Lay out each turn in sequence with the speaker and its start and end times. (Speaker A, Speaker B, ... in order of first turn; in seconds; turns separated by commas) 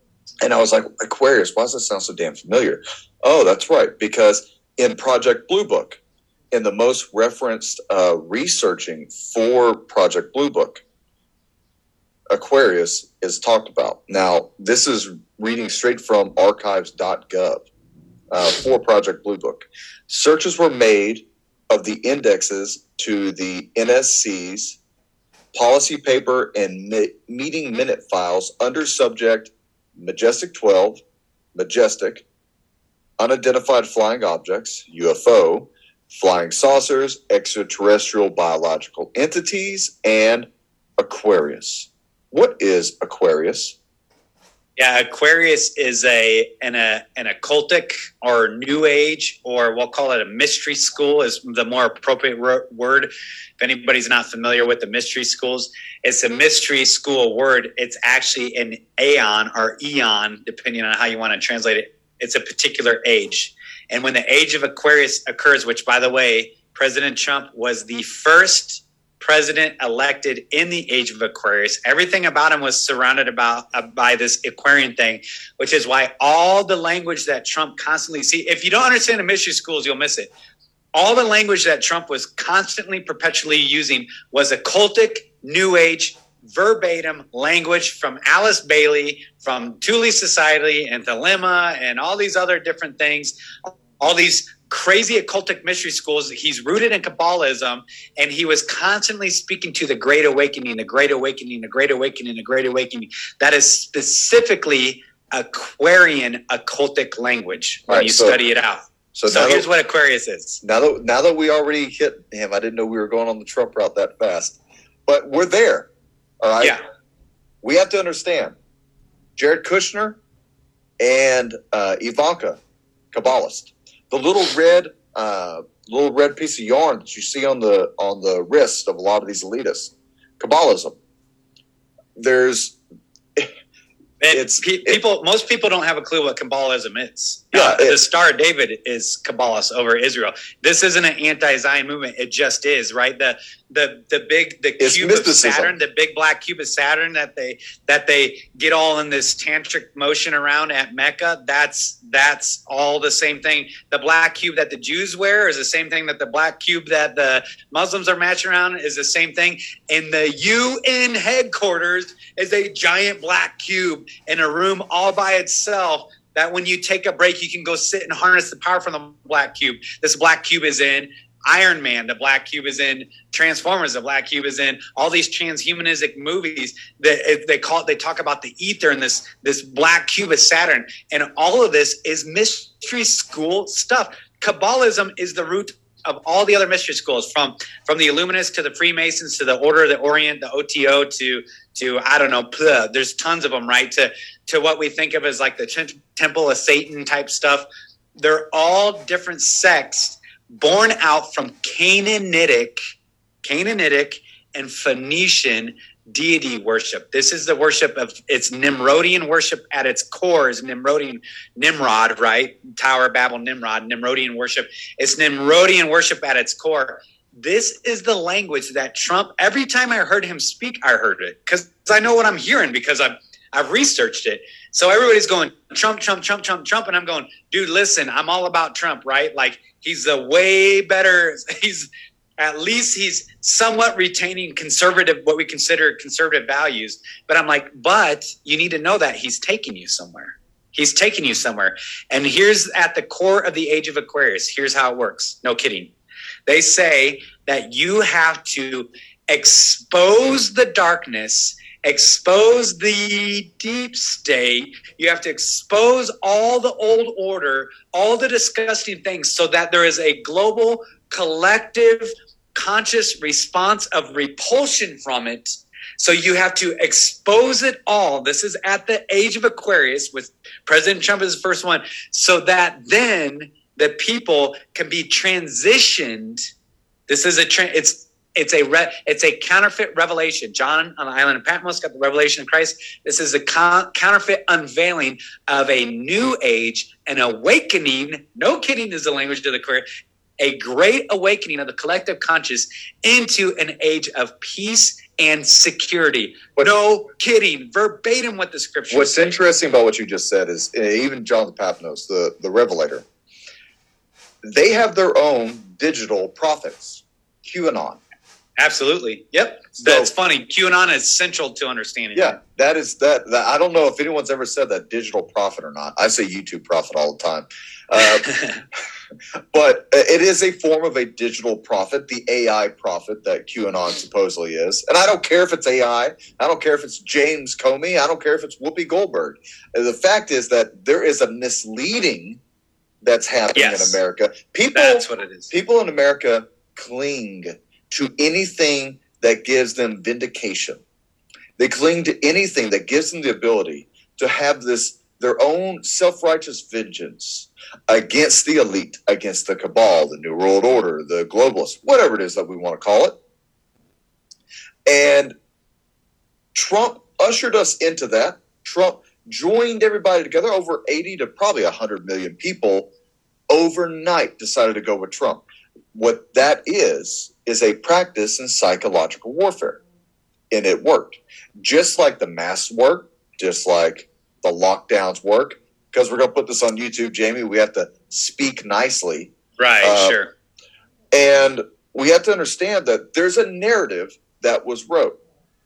Speaker A: 0.4-6.0, Speaker A: 6.5-10.8, Speaker A: 12.3-17.7, Speaker A: 18.3-24.8, Speaker A: 25.5-31.0, Speaker A: 31.5-32.2, Speaker A: 33.2-40.5, Speaker A: 41.0-43.7, Speaker B: 44.8-80.3, Speaker B: 80.9-110.6, Speaker A: 107.9-108.4, Speaker A: 109.1-109.7, Speaker A: 110.6-115.9, Speaker A: 116.4-116.8, Speaker A: 117.6-118.5, Speaker A: 119.3-120.2, Speaker A: 121.0-122.6, Speaker A: 123.1-131.0, Speaker A: 132.2-132.8, Speaker B: 134.2-197.7, Speaker A: 134.3-135.0, Speaker A: 137.5-138.0, Speaker A: 144.8-145.7, Speaker B: 198.2-202.8, Speaker B: 203.4-245.9, Speaker B: 246.5-276.4, Speaker B: 277.1-289.9, Speaker B: 290.4-299.4, Speaker A: 298.9-303.0, Speaker A: 304.4-308.0, Speaker B: 308.6-312.4, Speaker A: 309.7-310.1, Speaker A: 312.1-318.3, Speaker B: 318.3-318.5, Speaker A: 319.5-332.4, Speaker A: 333.0-340.8, Speaker B: 333.5-334.0, Speaker B: 334.7-335.5, Speaker A: 341.6-353.2, Speaker A: 354.9-355.3, Speaker A: 356.5-362.9, Speaker A: 363.5-365.4, Speaker A: 365.9-369.8, Speaker A: 370.5-380.2, Speaker B: 379.6-380.3, Speaker A: 381.1-385.2